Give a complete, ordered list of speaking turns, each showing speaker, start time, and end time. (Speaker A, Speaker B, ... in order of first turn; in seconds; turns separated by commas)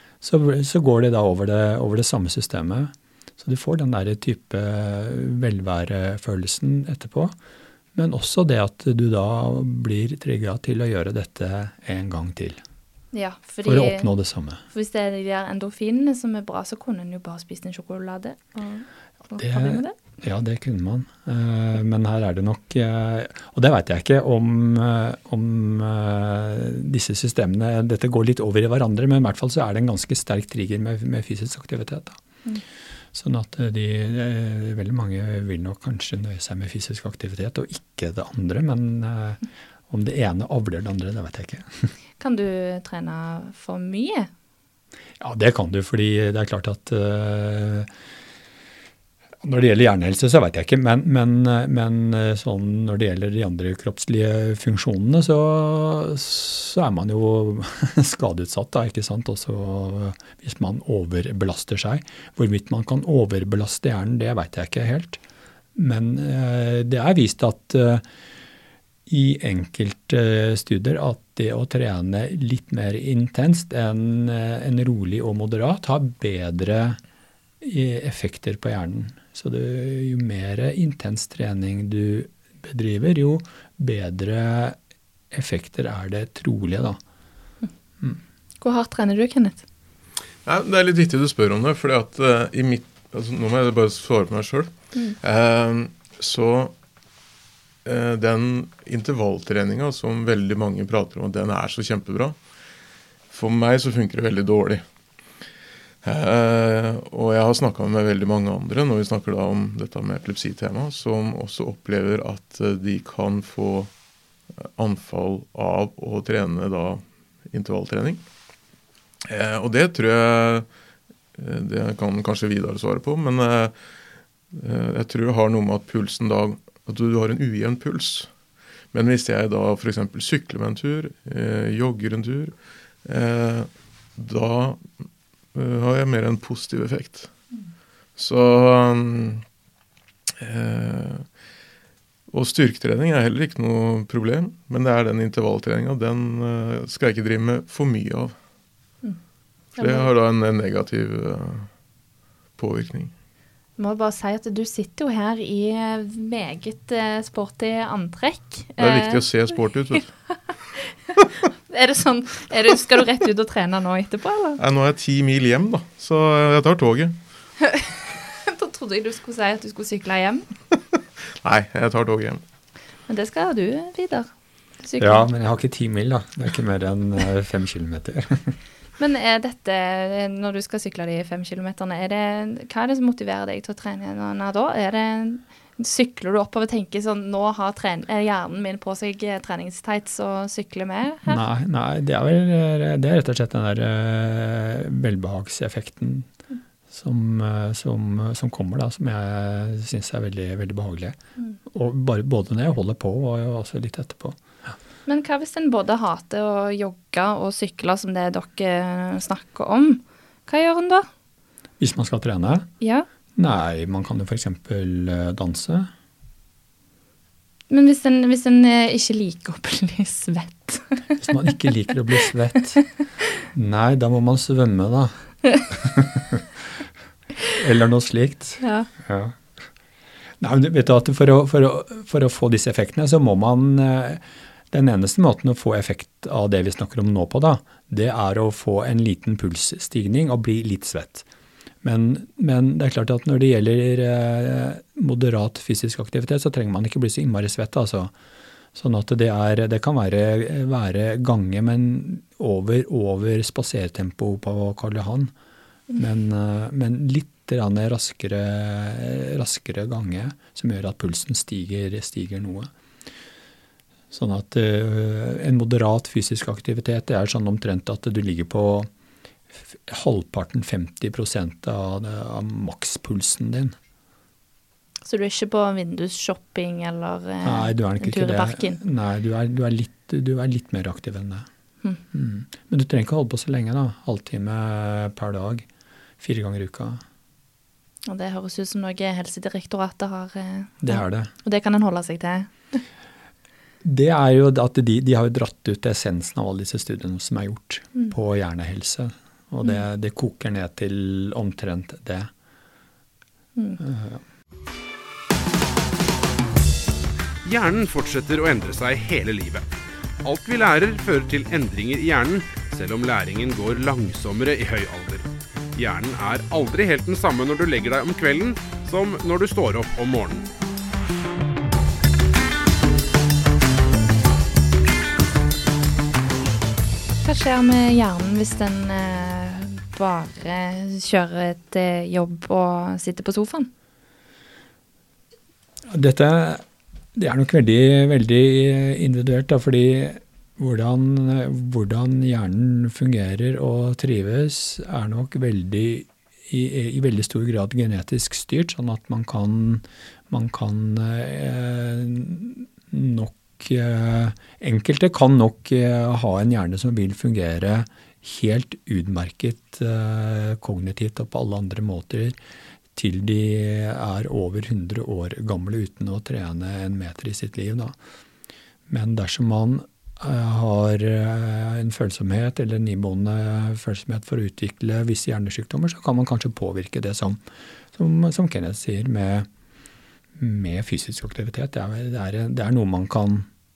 Speaker A: 0.2-7.3, Speaker A: 8.0-12.6, Speaker B: 13.1-14.1, Speaker A: 13.6-14.6, Speaker B: 14.7-19.9, Speaker A: 19.4-32.2, Speaker A: 33.1-41.9, Speaker B: 42.2-44.3, Speaker A: 45.2-47.9, Speaker A: 49.4-65.2, Speaker A: 65.8-68.0, Speaker A: 69.1-77.0, Speaker A: 77.6-84.8, Speaker A: 85.3-87.0, Speaker B: 88.6-89.7, Speaker C: 90.5-96.7, Speaker C: 97.8-102.4, Speaker C: 103.3-104.8, Speaker C: 106.0-113.9, Speaker C: 114.6-118.2, Speaker C: 119.3-120.7, Speaker C: 121.4-123.7, Speaker C: 124.5-128.3, Speaker C: 128.9-132.5, Speaker C: 133.1-134.8, Speaker C: 135.5-137.3, Speaker C: 138.2-139.4, Speaker C: 140.4-141.3, Speaker C: 142.3-148.3, Speaker B: 149.8-150.1, Speaker C: 149.8-151.7, Speaker C: 152.6-153.1, Speaker B: 153.8-159.2, Speaker C: 158.8-160.1, Speaker B: 161.7-164.6, Speaker C: 164.6-167.2, Speaker B: 167.6-170.5, Speaker C: 171.4-172.4, Speaker B: 173.1-174.3, Speaker B: 174.8-175.3, Speaker A: 175.0-178.5, Speaker B: 179.0-191.4, Speaker A: 191.3-196.3, Speaker A: 196.9-201.2, Speaker A: 201.7-204.4, Speaker B: 205.1-211.1, Speaker A: 211.8-212.7, Speaker B: 212.8-213.1, Speaker A: 213.4-215.9, Speaker B: 217.7-221.1, Speaker A: 221.2-222.8, Speaker A: 223.5-225.1, Speaker A: 225.7-226.4, Speaker A: 227.6-229.4, Speaker B: 228.6-228.9, Speaker A: 230.4-241.3, Speaker A: 241.8-248.1, Speaker A: 248.7-255.3, Speaker A: 256.0-262.7, Speaker A: 264.1-268.9, Speaker A: 269.7-273.8, Speaker B: 275.1-278.8, Speaker A: 277.4-281.5, Speaker A: 282.1-285.7, Speaker A: 286.2-287.0, Speaker B: 288.1-292.8, Speaker A: 290.8-291.3, Speaker A: 293.8-302.3, Speaker A: 303.8-304.2, Speaker D: 307.4-320.5, Speaker B: 327.2-333.7, Speaker A: 335.9-336.6, Speaker A: 337.2-362.4, Speaker A: 363.0-368.0, Speaker A: 368.9-377.4, Speaker A: 377.9-379.5, Speaker A: 380.4-383.5